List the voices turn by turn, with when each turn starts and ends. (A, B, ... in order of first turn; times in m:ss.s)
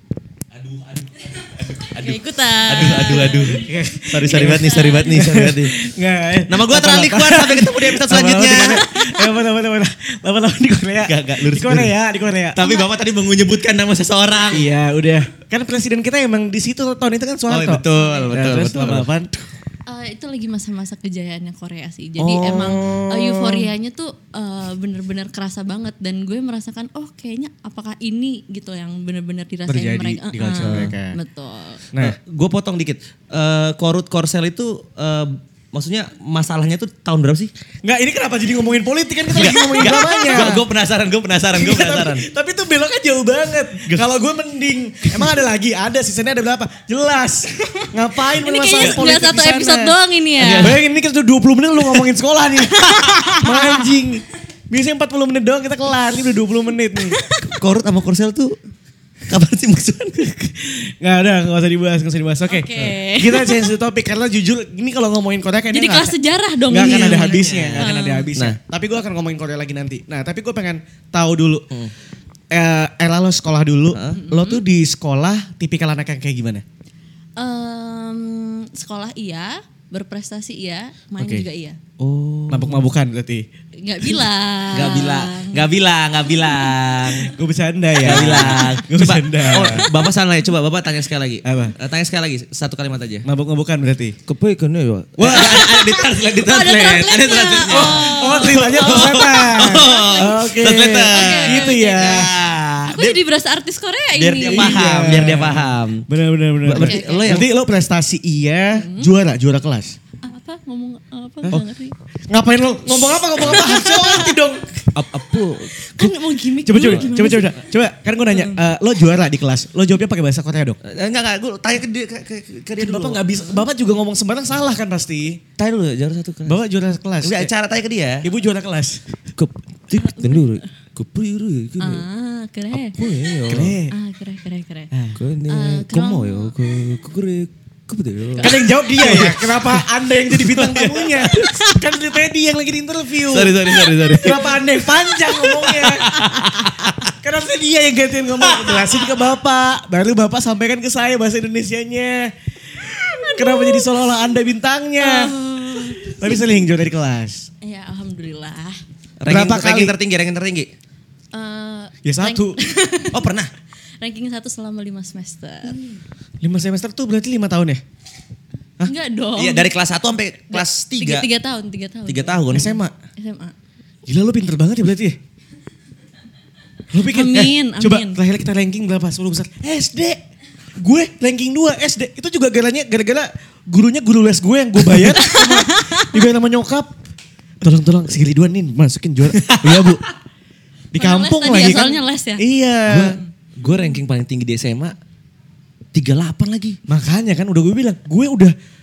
0:00.5-0:05.8 A
0:01.9-0:03.7 B
0:03.0-0:12.7 C
0:04.2-0:05.2 B
0:06.5-0:08.8 A
0:08.5-0:09.3 B
0:11.0-0:11.9 A
0:12.5-0:14.7 A
0:14.5-0:19.5 C
0:17.5-0:19.1 A
0:17.9-0:18.3 B
0:19.8-0:31.8 B
0:22.2-0:23.7 C
0:29.7-0:31.2 C
0:30.6-0:30.9 A
0:31.9-0:32.2 C
0:32.0-0:37.5 A
0:37.8-0:40.6 C
0:39.3-0:42.3 A
0:41.5-0:50.0 C
0:47.6-0:50.8 B
0:50.4-0:50.8 A
0:50.5-0:57.2 C
0:52.6-0:53.8 B
0:57.1-0:57.5 B
0:57.4-0:58.6 A
0:59.3-1:00.6 A
1:00.6-1:06.1 C
1:02.5-1:03.6 B
1:05.7-1:08.3 B
1:06.7-1:11.7 C
1:06.8-1:08.6 A
1:12.5-1:16.6 C
1:13.9-1:14.2 A
1:14.1-1:14.6 B
1:17.4-1:21.8 B
1:21.2-1:21.4 C
1:22.0-1:22.9 A
1:22.5-1:23.5 C
1:23.8-1:25.7 B
1:24.7-1:27.3 A
1:26.4-1:27.2 B
1:27.3-1:29.9 C
1:28.0-1:33.2 A
1:28.0-1:28.8 B
1:31.4-1:31.8 C
1:33.2-1:34.2 C
1:34.2-1:43.2 A
1:35.2-1:35.8 C
1:35.3-1:40.4 B
1:37.7-1:42.3 C
1:41.1-1:42.3 B
1:42.8-1:44.9 B
1:44.1-1:46.1 A
1:44.4-1:50.0 C
1:46.6-1:47.5 A
1:46.8-1:47.4 B
1:48.7-1:49.1 B
1:50.2-1:51.9 B
1:52.3-1:54.8 C
1:53.0-1:54.4 B
1:54.9-1:55.7 A
1:55.7-1:57.6 B
1:56.6-2:00.8 C
1:56.8-1:57.1 A
1:58.3-1:58.6 B
2:00.8-2:03.3 A
2:02.8-2:05.4 C
2:05.6-2:06.6 A
2:06.4-2:07.5 C
2:07.2-2:08.3 A
2:08.2-2:09.1 C
2:09.3-2:12.0 A
2:10.0-2:10.6 B
2:11.8-2:13.0 B
2:12.7-2:13.8 A
2:13.5-2:13.9 C
2:13.9-2:14.9 B
2:14.9-2:15.2 C
2:15.2-2:21.6 A
2:15.5-2:16.5 B
2:18.4-2:18.6 B
2:18.4-2:37.5 C
2:21.3-2:21.8 B
2:23.3-2:24.6 A
2:25.3-2:26.6 B
2:25.6-2:27.1 A
2:33.2-2:33.9 B
2:35.0-2:36.6 B
2:37.6-2:38.8 B
2:39.2-2:40.7 A
2:39.2-2:39.9 C
2:41.3-2:43.3 B
2:42.0-2:42.6 C
2:43.1-2:43.5 A
2:44.0-2:45.8 B
2:46.4-2:47.8 C
2:48.8-2:49.8 B
2:49.4-2:51.3 A
2:50.5-2:53.5 B
2:52.1-2:52.7 A
2:52.5-2:52.9 C
2:54.1-2:55.2 C
2:56.9-3:00.2 C
2:57.0-2:58.2 B
3:00.8-3:06.9 C
3:05.0-3:06.2 B
3:07.6-3:10.0 C
3:09.4-3:09.9 A
3:10.9-3:13.2 C
3:11.0-3:12.4 B
3:12.9-3:15.0 A
3:13.0-3:13.9 B
3:15.9-3:16.8 A
3:16.9-3:18.5 C